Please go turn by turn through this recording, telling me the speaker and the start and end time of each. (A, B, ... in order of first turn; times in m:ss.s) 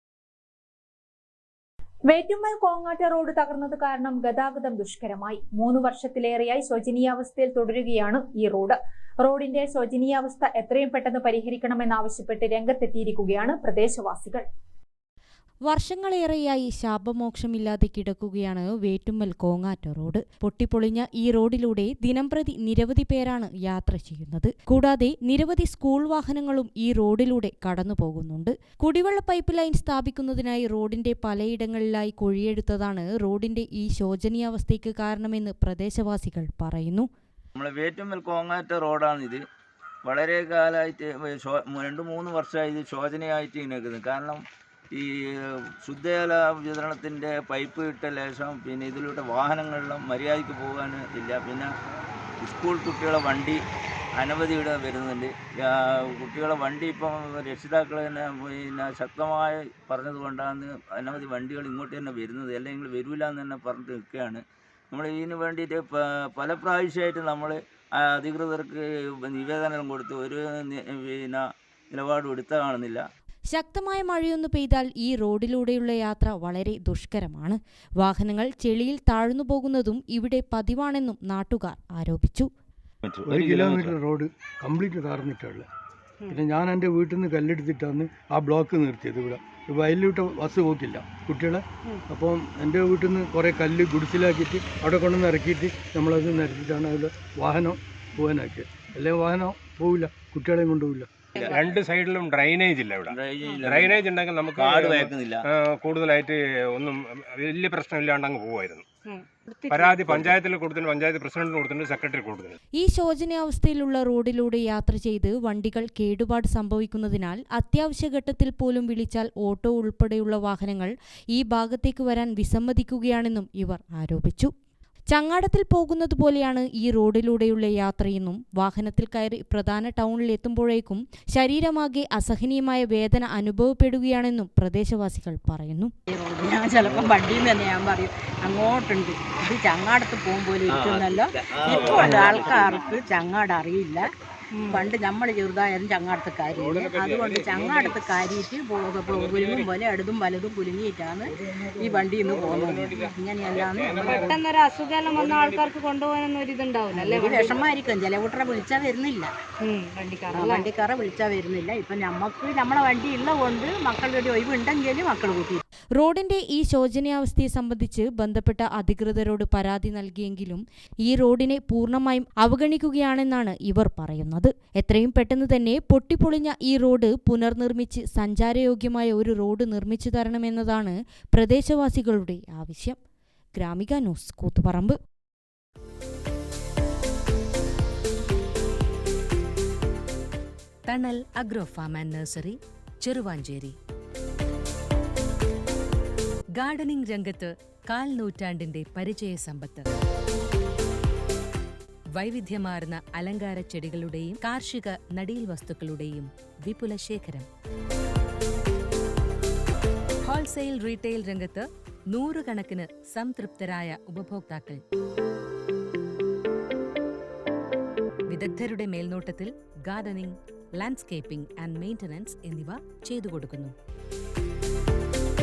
0:02.1-0:14.4 A
0:15.7-0:37.1 B
0:37.6-0:39.4 C
0:40.0-0:44.4 C
0:45.8-0:51.7 C
0:52.4-0:53.6 C
0:54.2-1:04.4 C
1:04.9-1:13.0 C
1:13.5-1:22.5 B
1:23.1-1:23.8 C
1:23.2-1:25.7 D
1:26.3-1:41.1 D
1:41.4-1:41.6 C
1:41.4-1:41.6 E
1:41.5-1:48.8 F
1:43.1-1:44.0 C
1:44.5-1:45.4 C
1:49.1-1:50.0 E
1:49.7-1:52.6 F
1:50.1-1:50.4 C
1:52.8-2:04.5 B
2:05.1-2:15.9 B
2:16.1-2:24.1 G
2:20.7-2:22.8 C
2:24.6-2:24.9 E
2:24.7-2:34.2 G
2:26.6-2:28.0 F
2:29.1-2:29.8 F
2:31.4-2:35.8 F
2:34.0-2:37.6 E
2:36.9-2:39.3 G
2:37.4-2:37.8 F
2:39.6-2:40.7 E
2:40.3-2:45.6 G
2:46.0-3:03.0 B
3:03.6-3:05.0 B
3:10.9-3:13.8 H
3:16.6-3:19.9 H
3:22.2-3:27.5 H
3:30.2-3:34.8 H
3:38.3-3:43.8 H